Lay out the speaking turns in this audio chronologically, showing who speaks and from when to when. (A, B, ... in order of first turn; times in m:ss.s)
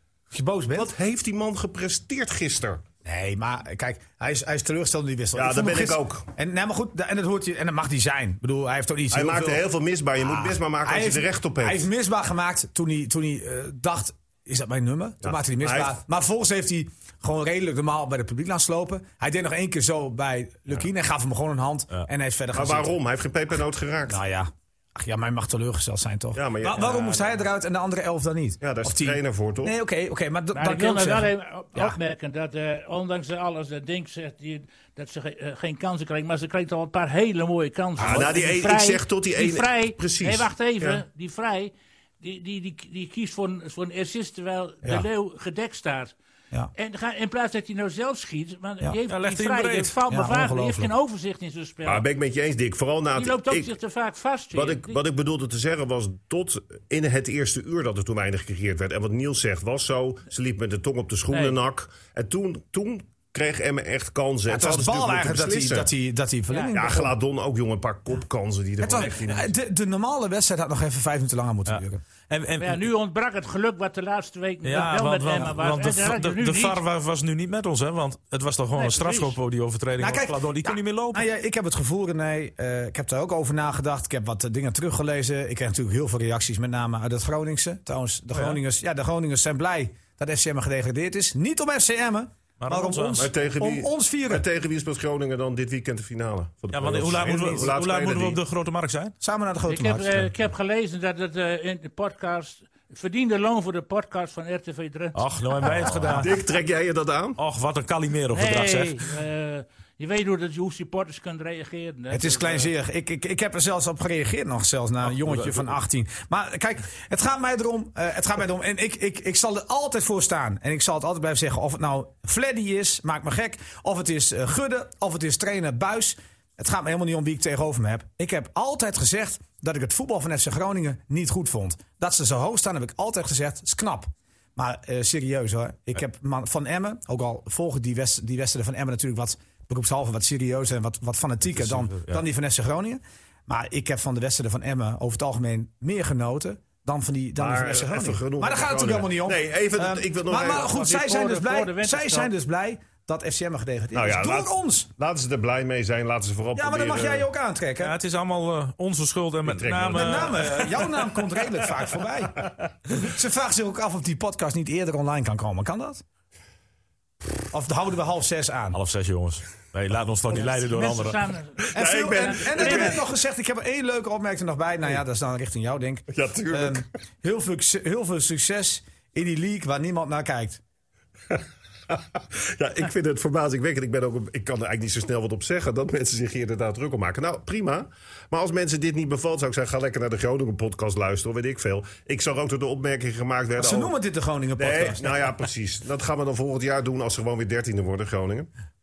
0:00.3-0:00.9 A
0:00.8-0:02.8 B
0:03.0-0:09.6 A
0:05.4-0:06.3 B
0:09.1-0:11.9 B
0:10.2-0:22.9 A
0:15.2-0:16.0 B
0:22.5-0:24.2 B
0:24.1-0:32.0 A
0:26.3-0:27.3 B
0:28.6-0:29.8 B
0:30.5-0:46.2 C
0:38.0-0:41.0 B
0:38.0-0:38.3 A
0:46.8-0:52.0 C
0:49.1-0:50.0 D
0:50.1-0:50.9 A
0:51.9-0:53.7 B
0:53.2-0:55.0 C
0:54.5-1:05.9 B
1:01.3-1:01.6 C
1:04.5-1:07.1 A
1:06.5-1:06.8 C
1:06.7-1:09.5 B
1:08.8-1:12.0 A
1:11.7-1:12.9 D
1:12.6-1:16.8 C
1:14.6-1:21.2 D
1:18.7-1:19.4 C
1:20.0-1:34.5 A
1:28.4-1:28.6 D
1:32.6-1:33.3 D
1:33.2-1:38.4 B
1:36.7-1:39.2 D
1:39.2-1:40.3 A
1:39.7-1:46.2 C
1:45.2-1:46.3 D
1:45.7-1:46.3 A
1:46.1-1:47.4 B
1:47.4-1:49.1 D
1:48.3-1:52.7 C
1:52.1-2:34.9 A
1:55.2-1:55.7 D
2:21.5-2:22.2 D
2:27.4-2:30.7 B
2:30.5-2:32.3 C
2:33.9-2:37.3 B
2:36.6-2:38.0 A
2:37.8-2:41.1 D
2:39.4-2:40.8 B
2:39.9-2:46.0 A
2:47.5-2:48.8 A
2:48.7-2:51.2 D
2:50.3-2:53.0 C
2:51.6-2:53.0 B
2:51.7-3:00.6 A
2:56.1-2:56.8 B
3:01.3-3:13.9 B
3:13.6-3:15.2 A
3:14.6-3:18.5 B